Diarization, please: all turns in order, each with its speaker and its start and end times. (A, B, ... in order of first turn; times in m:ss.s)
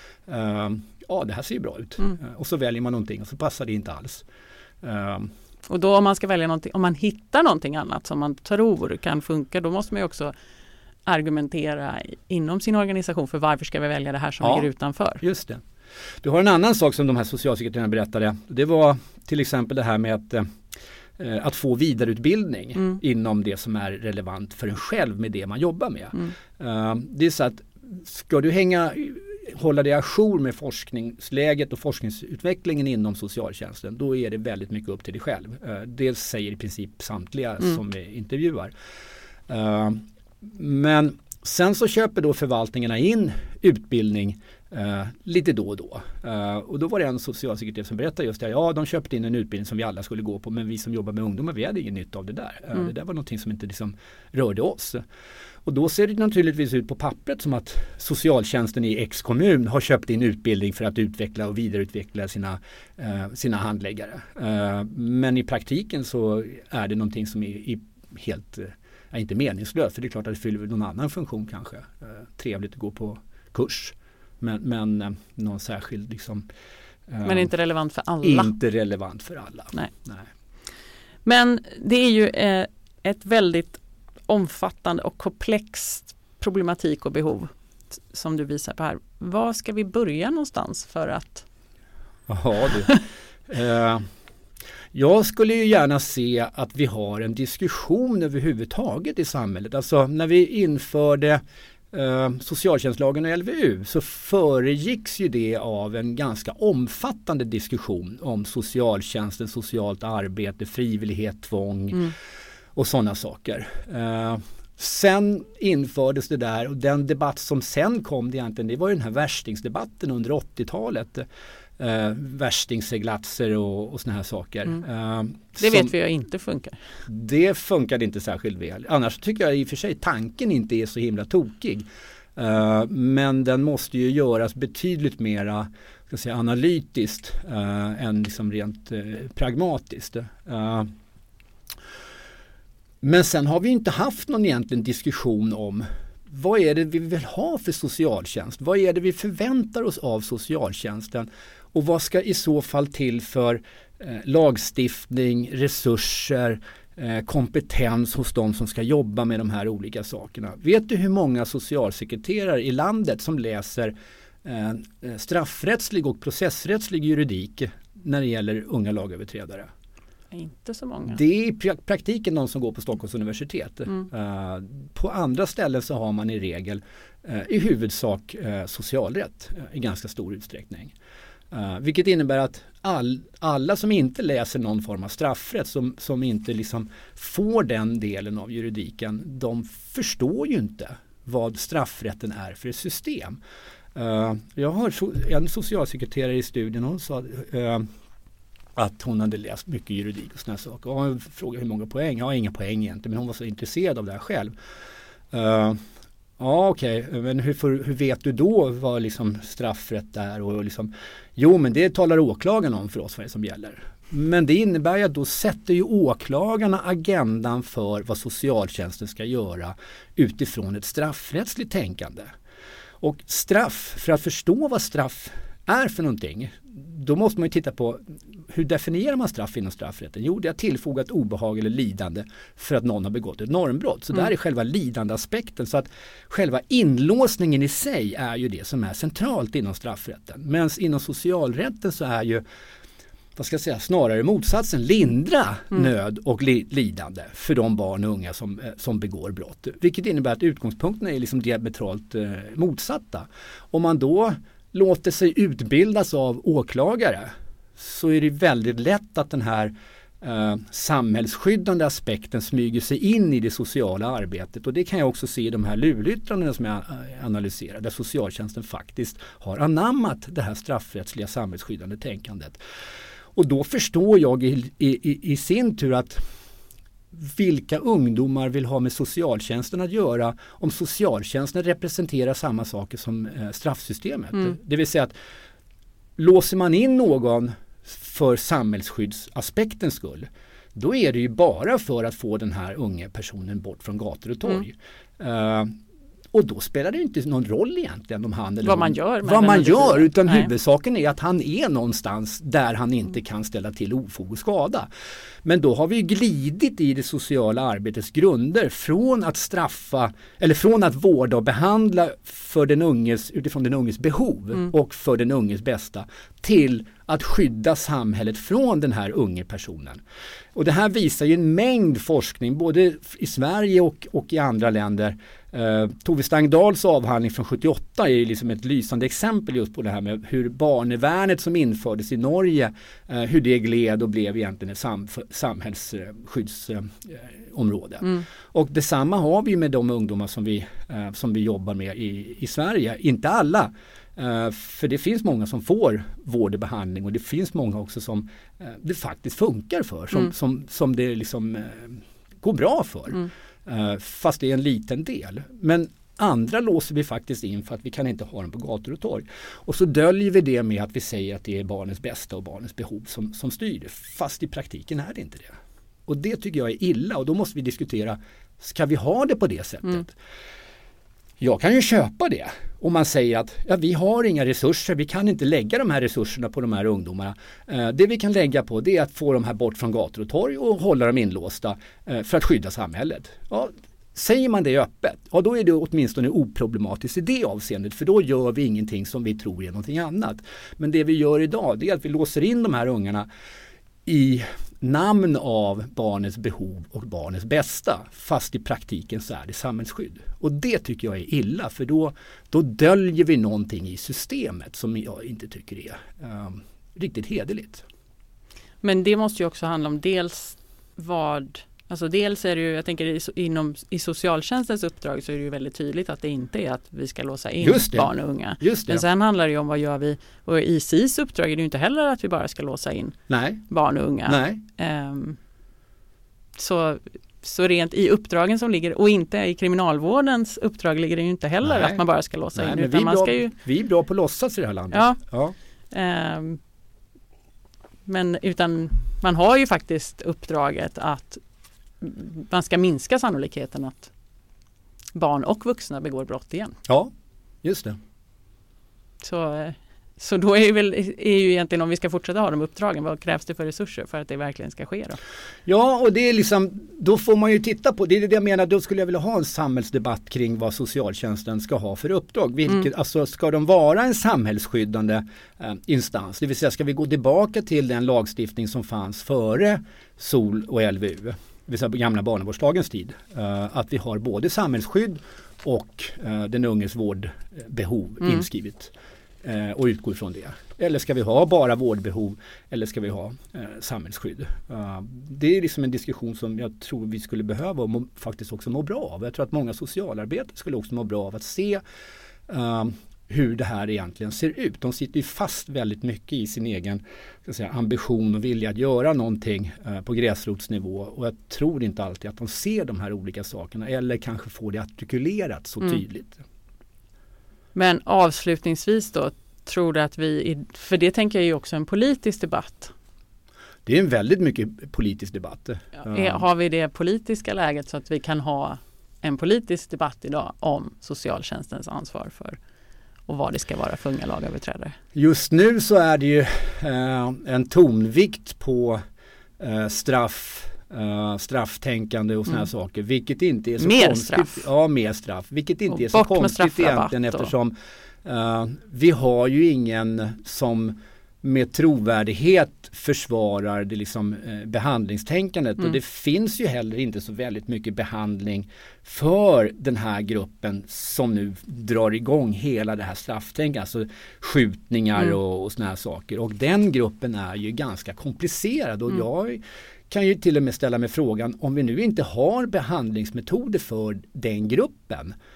0:00.3-0:04.2 A
0:04.8-0:05.3 A
0:05.7-0:10.4 B
0:11.1-0:15.2 B
0:14.4-0:14.7 A
0:15.2-0:15.6 A
0:16.2-0:20.5 A
0:21.2-0:38.7 A
0:39.5-0:55.0 A
0:55.7-1:16.5 A
1:17.1-1:17.5 A
1:17.2-1:18.5 B
1:18.2-1:20.3 A
1:21.2-1:31.5 B
1:32.3-1:34.1 A
1:34.9-1:52.1 A
1:52.8-2:01.3 A
2:01.8-2:05.9 A
2:05.6-2:06.8 B
2:07.1-2:20.9 A
2:23.0-2:43.9 A
2:44.4-2:49.7 A
2:50.3-2:51.2 B
2:51.1-3:00.9 A
3:01.5-3:13.4 A
3:14.0-3:17.9 A
3:18.8-3:24.5 A
3:25.3-3:25.8 A
3:26.4-3:42.3 A
3:43.0-4:02.4 A
4:03.4-4:32.6 A
4:33.4-4:36.2 A
4:37.1-4:45.1 A
4:46.2-4:55.8 A
4:56.3-5:04.9 A
4:58.6-5:00.5 B
5:05.4-5:20.0 A
5:20.6-6:05.6 A
6:06.1-6:10.2 A
6:11.4-6:33.3 A
6:34.1-6:47.8 A
6:48.8-7:03.2 B
6:57.6-6:59.0 A
7:03.3-7:03.6 A
7:03.7-7:05.4 B
7:04.2-7:04.6 A
7:06.6-7:13.5 B
7:11.6-7:15.6 A
7:14.9-7:15.2 B
7:15.9-7:16.6 B
7:18.1-7:21.4 B
7:22.0-7:24.1 B
7:25.1-7:26.8 B
7:26.9-7:27.1 A
7:27.6-7:28.0 A
7:29.2-7:35.2 B
7:35.7-7:58.9 A
7:59.4-8:11.8 A
8:12.5-8:26.4 A
8:27.8-8:32.9 B
8:33.9-8:36.4 A
8:36.0-8:42.6 B
8:43.3-8:45.0 B
8:45.1-8:49.0 A
8:49.6-9:25.4 A
8:53.8-8:54.7 B
8:55.9-8:57.5 B